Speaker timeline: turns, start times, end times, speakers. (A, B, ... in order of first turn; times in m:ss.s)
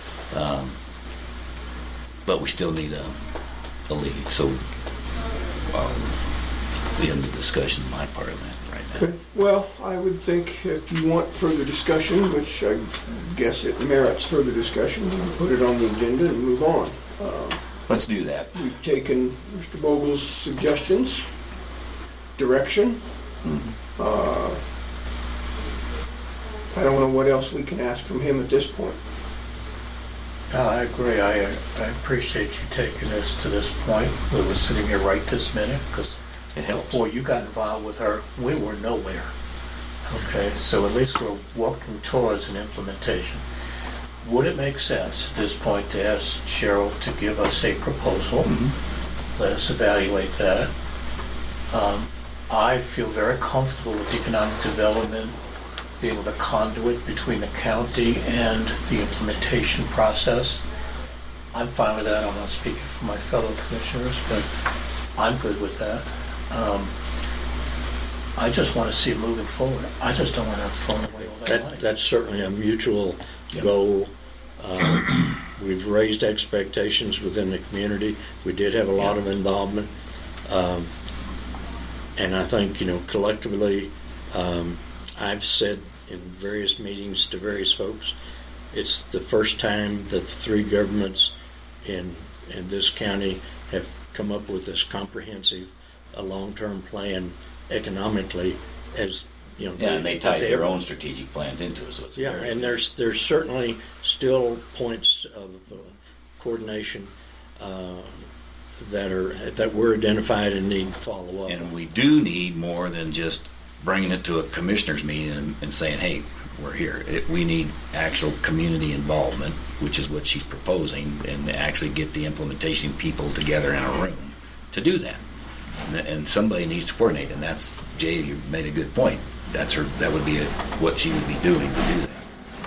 0:00.3-0:00.8 A
0:02.3-0:03.2 A
0:03.9-0:04.6 A
0:05.7-0:06.2 A
0:07.0-0:09.1 A
0:09.0-0:17.6 B
0:17.9-0:18.7 A
0:18.6-0:21.2 B
0:22.4-0:23.0 B
0:23.4-0:23.8 A
0:24.0-0:24.6 B
0:26.7-0:29.0 B
0:30.5-0:39.3 C
0:36.5-0:37.0 A
0:40.0-0:43.4 C
0:44.2-0:48.5 C
0:48.4-0:48.7 A
0:49.4-0:50.7 C
0:51.7-0:55.4 C
0:56.0-1:00.6 C
1:01.5-1:04.5 C
1:05.2-1:06.9 C
1:08.4-1:11.8 C
1:11.4-1:19.9 D
1:20.5-1:20.9 D
1:22.2-1:28.2 D
1:28.7-1:40.8 D
1:39.8-1:42.8 A
1:42.2-1:48.2 D
1:48.8-1:51.7 D
1:51.5-2:05.2 A
2:05.8-2:12.3 A